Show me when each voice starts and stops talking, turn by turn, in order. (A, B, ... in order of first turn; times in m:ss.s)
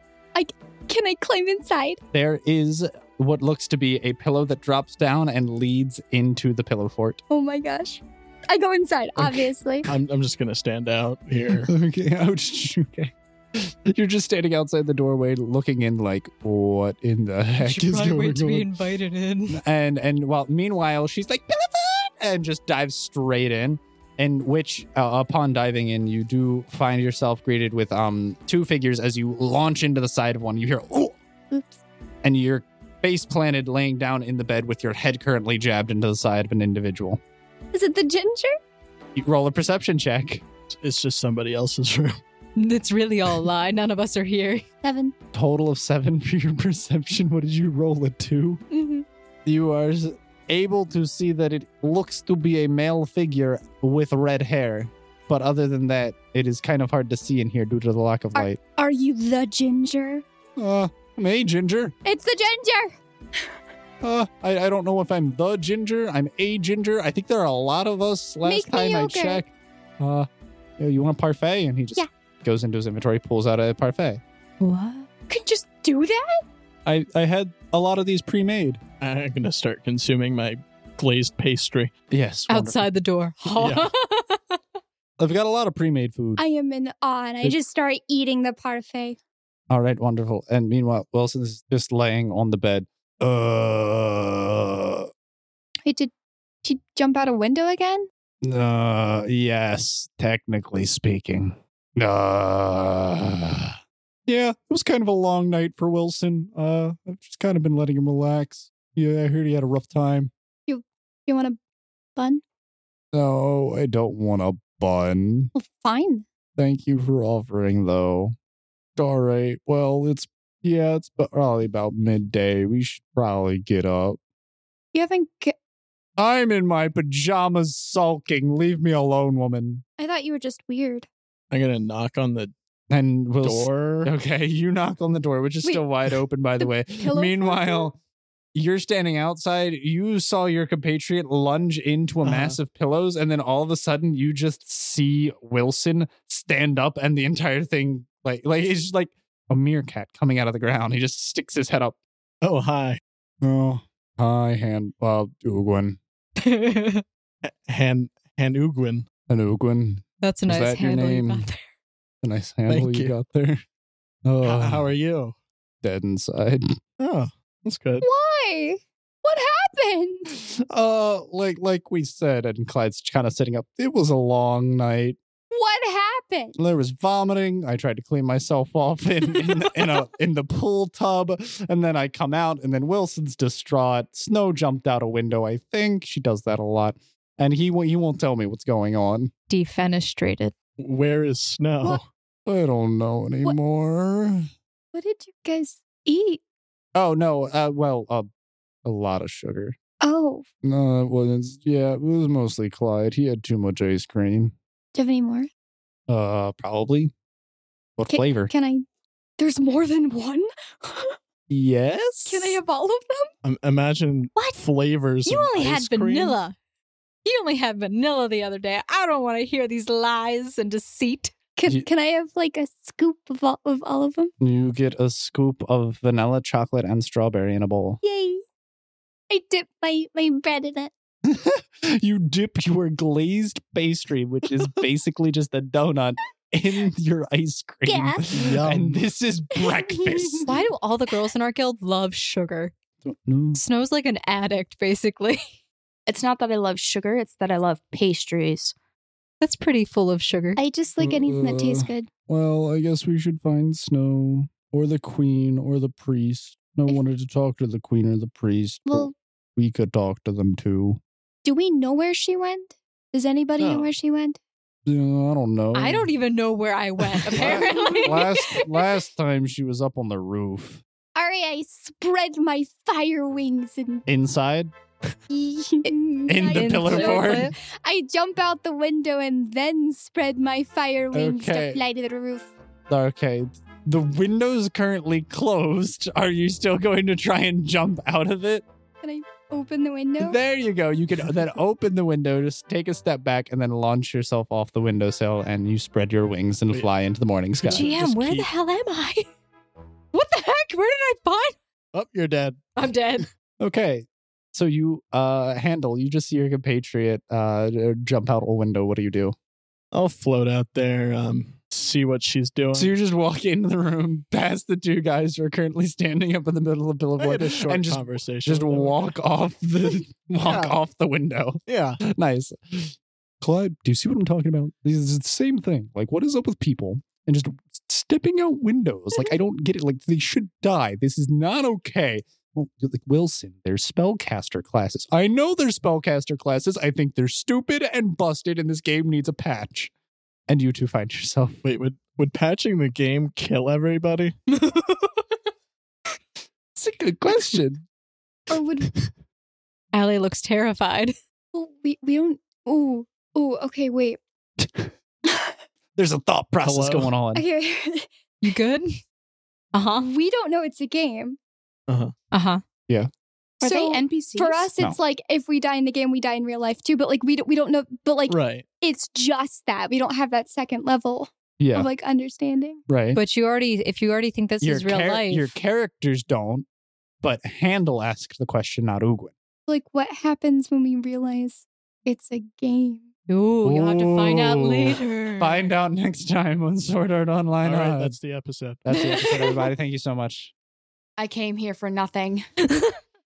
0:00.4-0:02.0 A
0:02.1-0:07.2 B
0:07.3-0:09.9 A
0:09.9-0:11.7 C
0:11.6-0:18.7 B
0:17.6-0:19.6 D
0:19.5-0:31.2 B
0:31.5-0:31.8 A
0:32.2-0:37.2 B
0:37.7-0:38.5 A
0:39.1-0:40.4 B
0:40.7-0:42.2 C
0:42.6-0:44.6 D
0:44.8-0:45.1 A
0:45.3-0:48.6 B
0:48.7-0:49.0 A
0:49.4-0:58.6 B
0:58.4-1:00.2 A
1:00.6-1:01.9 B
1:02.0-1:03.0 A
1:04.0-1:10.3 B
1:08.4-1:09.4 A
1:10.8-1:14.2 B
1:14.6-1:15.1 D
1:15.3-1:16.4 A
1:16.8-1:18.8 B
1:19.0-1:21.9 C
1:22.1-1:22.8 B
1:22.5-1:24.6 D
1:23.4-1:23.9 C
1:25.2-1:26.4 B
1:26.4-1:29.2 A
1:29.7-1:35.1 B
1:35.9-1:36.1 A
1:36.6-1:38.1 A
1:38.4-1:50.3 B
1:50.7-1:51.6 A
1:52.2-1:52.4 A
1:53.1-1:55.5 B
1:55.5-1:56.2 A
1:56.6-1:58.3 B
1:59.0-2:04.2 B
2:04.9-2:05.5 A
2:06.2-2:09.8 B
2:10.0-2:11.1 A
2:11.5-2:12.5 C
2:12.9-2:18.0 B
2:13.4-2:14.1 C
2:16.6-2:17.9 A
2:18.5-2:32.0 B
2:22.2-2:22.6 C
2:32.4-2:33.0 C
2:33.4-2:36.0 B
2:36.4-2:37.0 D
2:37.4-2:39.1 C
2:39.3-2:41.5 B
2:40.2-2:41.6 D
2:42.2-2:43.6 B
2:42.7-2:43.1 C
2:44.2-2:44.9 B
2:44.4-2:45.3 C
2:45.8-2:46.8 B
2:47.0-2:48.0 C
2:48.0-2:50.3 A
2:50.3-2:55.2 B
2:55.5-2:56.6 A
2:56.6-3:09.3 B
3:09.5-3:10.5 D
3:10.8-3:12.0 C
3:12.4-3:14.5 B
3:14.9-3:16.4 A
3:16.9-3:18.3 B
3:18.8-3:19.8 B
3:20.0-3:20.4 A
3:20.6-3:24.5 B
3:24.9-3:25.5 A
3:26.1-3:27.1 B
3:28.0-3:28.5 B
3:28.1-3:28.8 A
3:29.4-3:31.2 A
3:31.5-3:32.6 B
3:32.2-3:33.3 A
3:33.4-3:36.4 C
3:35.2-3:36.6 D
3:37.2-3:41.4 D
3:41.6-3:44.3 A
3:44.4-3:48.0 B
3:48.0-3:48.4 A
3:49.3-3:50.9 A
3:51.2-4:00.5 B
3:57.9-3:58.3 A
3:58.3-3:59.0 C
3:59.6-4:00.5 A
4:00.4-4:02.7 D
4:03.0-4:03.6 B
4:03.5-4:05.4 D
4:06.1-4:08.7 E
4:09.4-4:10.6 D
4:10.6-4:12.1 A
4:11.0-4:21.0 B
4:18.9-4:19.1 A
4:21.4-4:24.4 A
4:23.6-4:23.9 C
4:24.9-4:26.1 B
4:25.7-4:28.6 D
4:27.3-4:30.8 B
4:27.4-4:28.7 A
4:31.1-4:34.0 A
4:34.1-4:34.7 B
4:35.3-4:42.5 A
4:36.3-4:37.5 B
4:36.5-4:37.5 D
4:41.1-4:41.8 B
4:42.9-4:48.6 B
4:49.0-4:50.4 A
4:50.2-4:57.9 B
4:57.6-4:58.5 C
4:57.7-4:59.3 D
5:00.1-5:01.6 D
5:01.9-5:02.7 C
5:02.8-5:03.3 D
5:03.6-5:09.4 B
5:09.9-5:12.9 C
5:12.7-5:39.9 B
5:17.2-5:19.1 C
5:20.4-5:20.8 C
5:21.7-5:22.0 C
5:40.5-5:41.6 B
5:41.6-5:44.4 C
5:44.5-5:45.2 D
5:46.8-5:47.8 B
5:48.5-5:48.9 A
5:49.9-5:51.1 D
5:51.5-5:54.2 A
5:54.6-5:54.9 B
5:55.2-5:55.6 A
5:56.0-5:57.4 B
5:56.6-5:57.1 C
5:57.3-5:58.1 A
5:58.4-5:59.0 D
5:59.7-6:00.1 D
6:00.0-6:01.4 A
6:01.9-6:02.1 C
6:02.3-6:02.6 D
6:03.6-6:04.7 E
6:03.6-6:12.8 A
6:08.3-6:08.6 C
6:11.6-6:11.9 B
6:12.9-6:13.2 B
6:13.1-6:15.5 D
6:14.6-6:16.6 B
6:17.2-6:19.3 B
6:19.7-6:23.1 A
6:23.3-6:25.6 D
6:23.6-6:28.2 B
6:27.6-6:28.8 C
6:28.8-6:30.5 B
6:28.9-6:29.7 D
6:31.2-6:32.4 E
6:32.6-6:32.9 D